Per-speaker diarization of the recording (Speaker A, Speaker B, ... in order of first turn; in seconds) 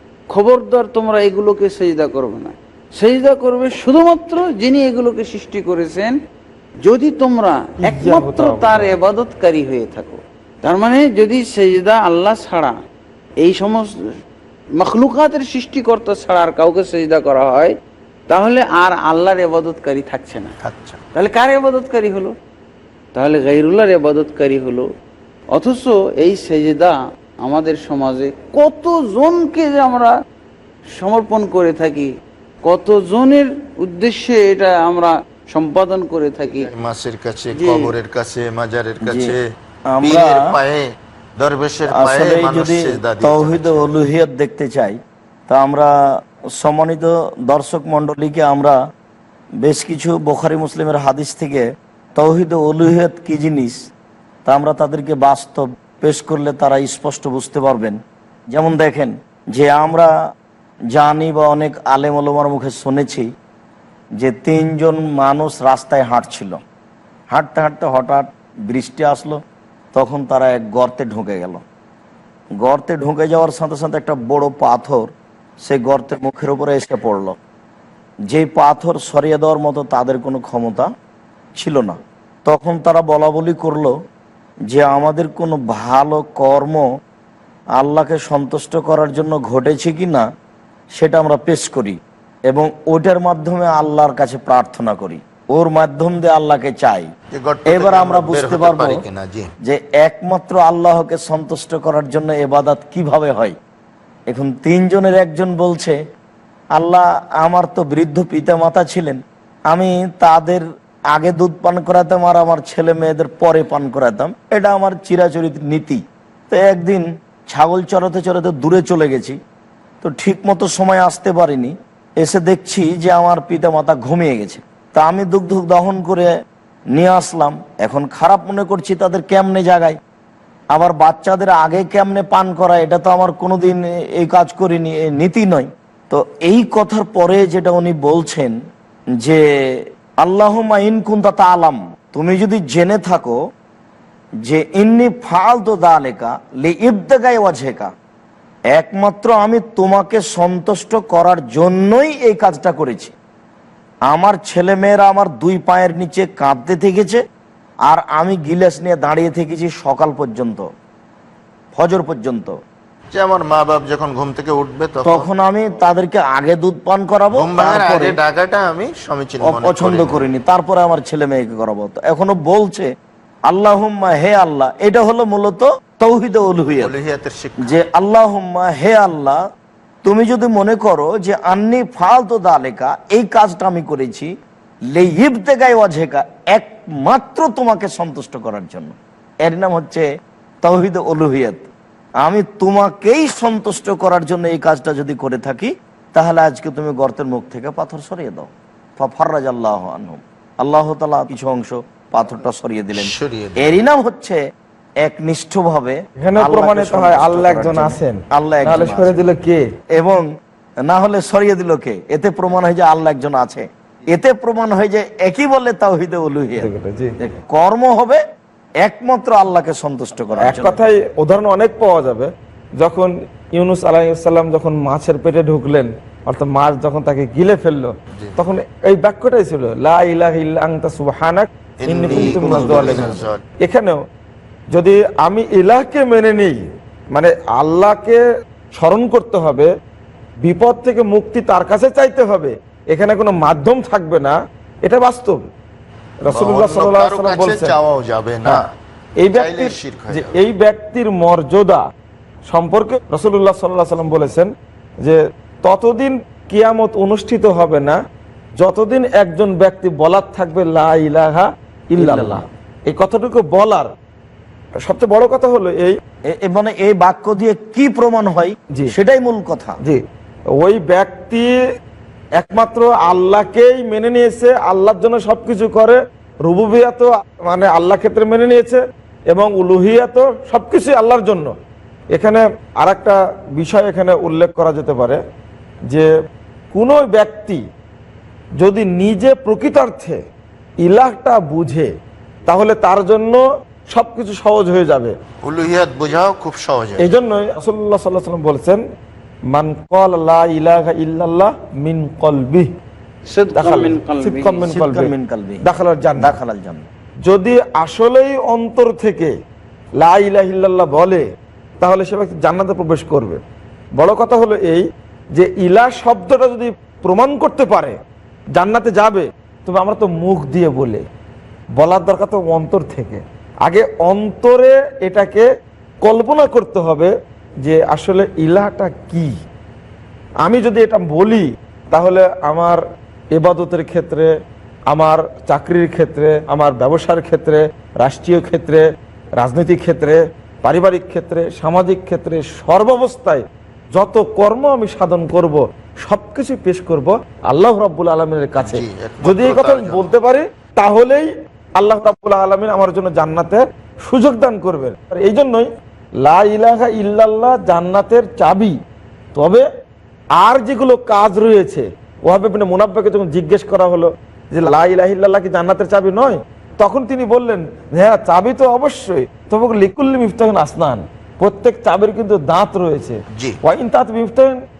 Speaker A: 0.3-6.2, 6.8-12.8, 13.4-13.9, 14.8-17.7, 18.3-20.5, 21.1-22.3, 23.1-24.9, 25.5-30.1, 31.0-32.1, 32.7-36.7, 37.6-37.9, 303.3-304.7
Speaker B: 7.8-8.9, 206.2-209.7, 216.6-217.2, 220.4-234.0, 234.7-236.6, 237.1-238.2, 238.8-239.7, 240.4-245.4, 246.2-247.8, 249.2-251.9, 252.5-258.0, 258.6-263.9, 264.8-266.0, 270.6-271.5, 272.4-281.5, 282.1-285.2, 286.7-287.6, 288.6-290.2, 290.8-291.9, 292.5-295.1, 297.0-298.8, 299.5-302.7, 303.6-305.1, 305.6-306.4, 307.2-309.3, 310.0-311.2, 311.8-313.4, 314.0-318.0, 318.5-321.0, 321.8-325.5, 326.0-327.1, 327.6-329.3, 330.4-332.8, 333.3-334.3, 334.9-338.9, 339.4-355.7, 356.2-358.8, 359.4-359.7, 360.4-374.6
Speaker C: 20.6-21.0, 36.7-39.4, 40.0-40.9, 41.4-43.9, 97.3-99.5, 163.1-165.3, 167.3-170.2, 176.8-177.8, 203.0-203.7, 231.8-233.4, 246.3-248.7, 249.2-250.4, 295.4-297.1, 348.6-350.1
Speaker D: 39.0-39.3, 39.9-40.5, 41.9-45.9, 46.6-48.8, 49.6-53.8, 54.5-58.0, 58.5-60.1, 60.9-63.3, 64.2-66.6, 67.3-69.4, 69.9-71.6, 72.6-75.1, 75.6-77.4, 78.3-80.9, 81.6-84.0, 84.7-86.8, 87.8-90.3, 91.0-92.0, 92.5-97.1, 97.7-99.0, 99.6-103.6, 104.3-106.0, 106.8-109.2, 109.7-119.4, 120.0-126.3, 126.9-130.0, 130.7-138.6, 139.2-143.4, 144.4-147.9, 148.7-153.1, 154.1-157.2, 157.9-160.7, 161.8-162.6, 165.1-168.2, 169.4-172.9, 173.5-176.9, 177.6-179.4, 180.1-184.3, 184.9-190.1, 190.6-191.7, 192.2-204.4, 205.0-209.2, 209.9-210.3, 210.9-218.2, 218.8-220.8, 232.1-233.2, 262.0-262.4, 266.3-269.8, 304.7-306.9